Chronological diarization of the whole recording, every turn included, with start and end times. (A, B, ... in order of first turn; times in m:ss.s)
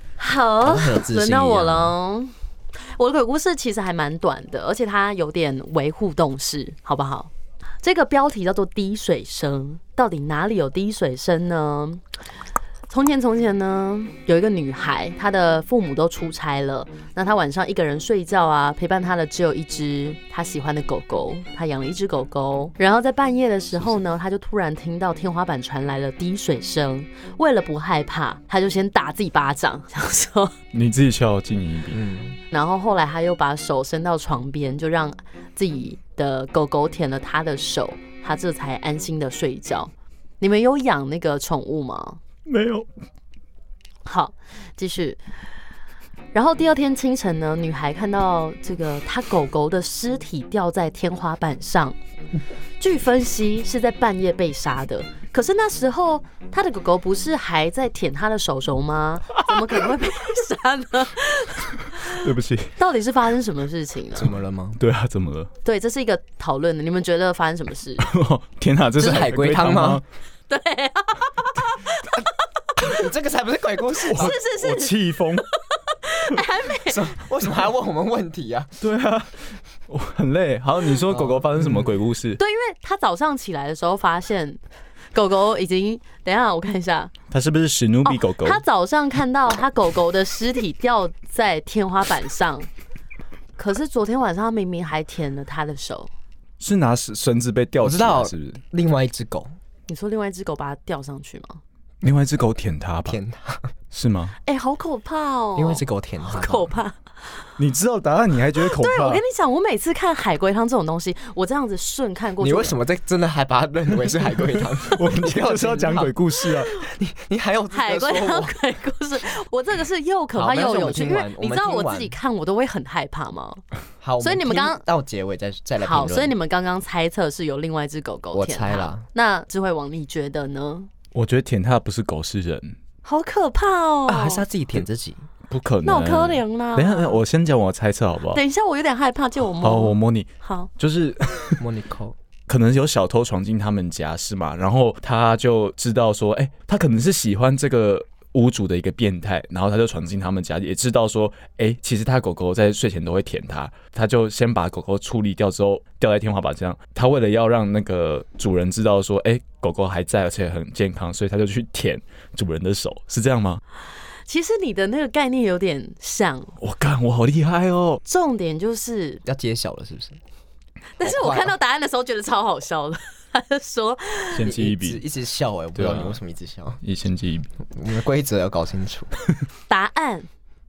0:00.2-0:07.3 A
0:00.6-0:02.0 B
0:07.8-0:12.0 A
0:12.9-0:30.5 A
0:30.7-0:32.0 C
0:31.9-0:32.4 B
0:32.5-0:42.2 A
0:42.5-0:42.9 C
0:44.0-0:45.2 A
0:46.3-0:52.0 A
0:52.8-1:04.3 A
1:02.0-1:02.7 C
1:04.2-1:04.8 B
1:04.8-1:05.5 C
1:05.6-1:08.1 A
1:08.0-1:10.0 C
1:09.0-1:10.0 B
1:10.5-1:12.3 A
1:12.8-1:14.4 B
1:14.0-1:15.1 A
1:14.1-1:15.5 C
1:15.9-1:17.1 A
1:16.8-1:18.7 B
1:18.8-1:22.4 C
1:21.1-1:21.9 B
1:22.4-1:24.6 A
1:25.1-1:27.1 A
1:27.3-1:28.6 C
1:28.0-1:32.7 A
1:33.6-1:36.1 A
1:36.6-1:38.6 C
1:37.8-1:39.5 B
1:39.9-1:41.6 A
1:42.0-1:43.2 C
1:43.1-1:43.7 B
1:43.9-1:44.4 C
1:44.5-1:47.0 A
1:45.6-1:46.7 B
1:47.6-1:49.2 C
1:48.6-1:52.8 A
1:52.4-1:56.2 B
1:54.6-1:56.7 C
1:56.7-1:58.5 B
1:57.7-2:03.6 A
2:00.3-2:02.2 B
2:04.0-2:06.3 B
2:04.2-2:04.8 A
2:05.8-2:10.9 A
2:08.3-2:09.1 B
2:11.1-2:12.8 C
2:13.0-2:14.4 A
2:14.1-2:15.3 B
2:15.5-2:18.4 C
2:15.8-2:17.2 A
2:18.3-2:20.7 A
2:19.5-2:21.6 C
2:21.6-2:22.2 B
2:22.5-2:43.6 C
2:44.3-2:46.5 A
2:46.6-2:48.0 C
2:48.0-2:49.2 A
2:49.2-2:50.2 B
2:51.0-2:54.5 A
2:51.0-2:51.6 B
2:54.3-2:55.0 C
2:54.4-2:56.8 B
2:55.8-2:56.2 C
2:56.8-2:57.5 C
2:57.7-2:59.1 B
2:59.7-3:00.3 A